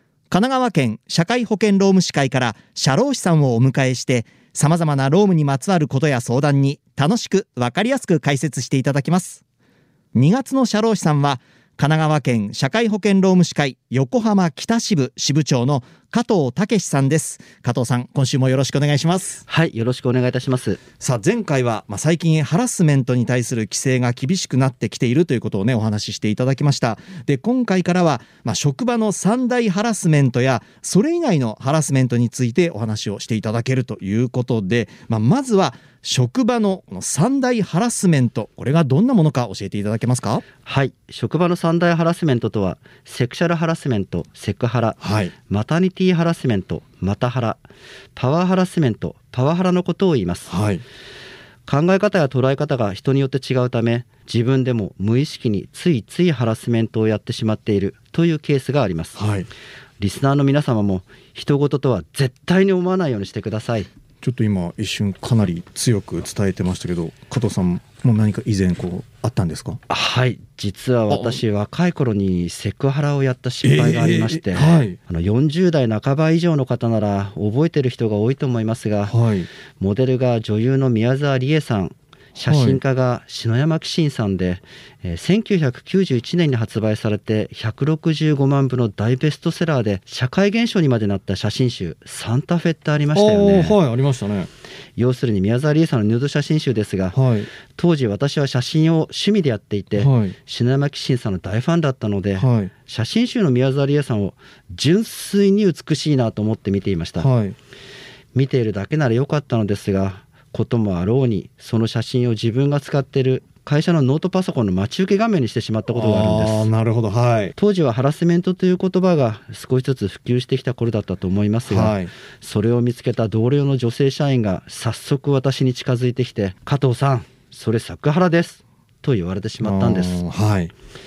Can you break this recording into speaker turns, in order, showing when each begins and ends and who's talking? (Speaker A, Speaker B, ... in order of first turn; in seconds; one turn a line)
Speaker A: 0.3-9.4
Speaker A: 10.1-19.4
Speaker B: 19.5-20.8
Speaker A: 21.0-40.4
Speaker B: 40.7-47.6
Speaker A: 45.0-45.3
Speaker B: 48.2-50.5
Speaker A: 50.5-50.8
Speaker B: 51.7-59.2
Speaker A: 59.1-59.5
Speaker B: 60.0-63.9
Speaker A: 64.2-69.8
Speaker B: 69.9-79.1
Speaker A: 71.1-71.4
Speaker A: 73.6-75.0
Speaker A: 79.1-79.5
Speaker B: 79.8-93.8
Speaker A: 82.5-82.8
Speaker A: 93.1-94.5
Speaker B: 95.0-97.2
Speaker A: 97.1-97.5
Speaker B: 97.8-107.3
Speaker A: 100.0-100.3
Speaker A: 102.4-102.7
Speaker A: 107.2-107.5
Speaker B: 108.3-116.7
Speaker A: 115.9-117.5
Speaker B: 117.6-130.2
Speaker A: 121.7-122.1
Speaker A: 129.6-130.7